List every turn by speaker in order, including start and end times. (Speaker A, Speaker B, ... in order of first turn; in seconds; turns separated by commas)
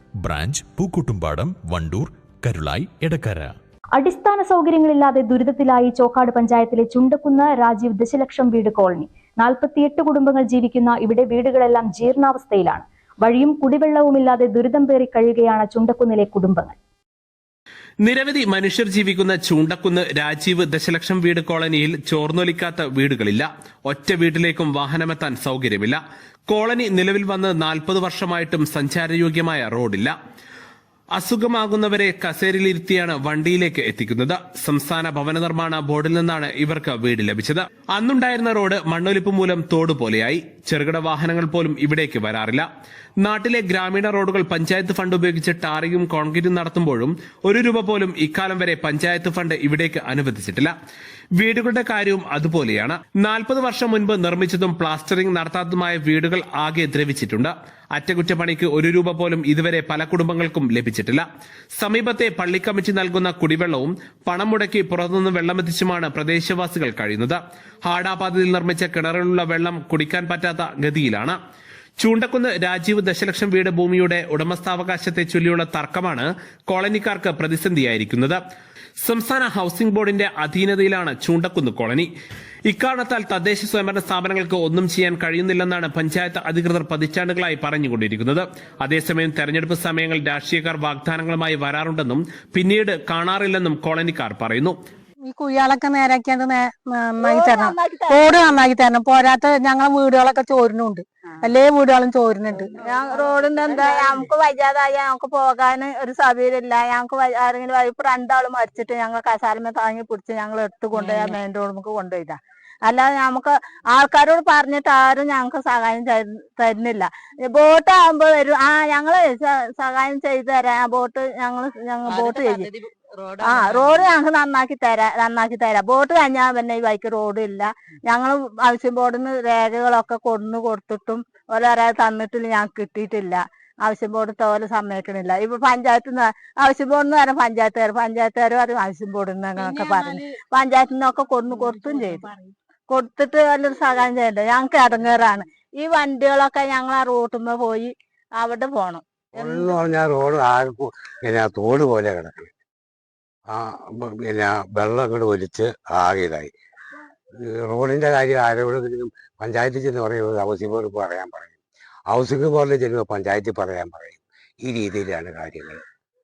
Speaker A: 0.2-3.5, Speaker B: 4.0-16.8, Speaker C: 18.0-30.1, Speaker C: 31.2-42.6, Speaker C: 43.2-50.7, Speaker C: 51.4-61.2, Speaker C: 61.8-71.3, Speaker C: 72.0-78.4, Speaker C: 79.0-82.1, Speaker C: 82.7-94.8, Speaker D: 95.2-102.7, Speaker E: 97.2-98.5, Speaker E: 102.7-122.7, Speaker E: 123.4-142.3, Speaker D: 139.6-140.2, Speaker D: 141.6-142.4, Speaker E: 142.9-149.0, Speaker F: 149.3-152.5, Speaker F: 153.5-156.5, Speaker F: 157.4-165.8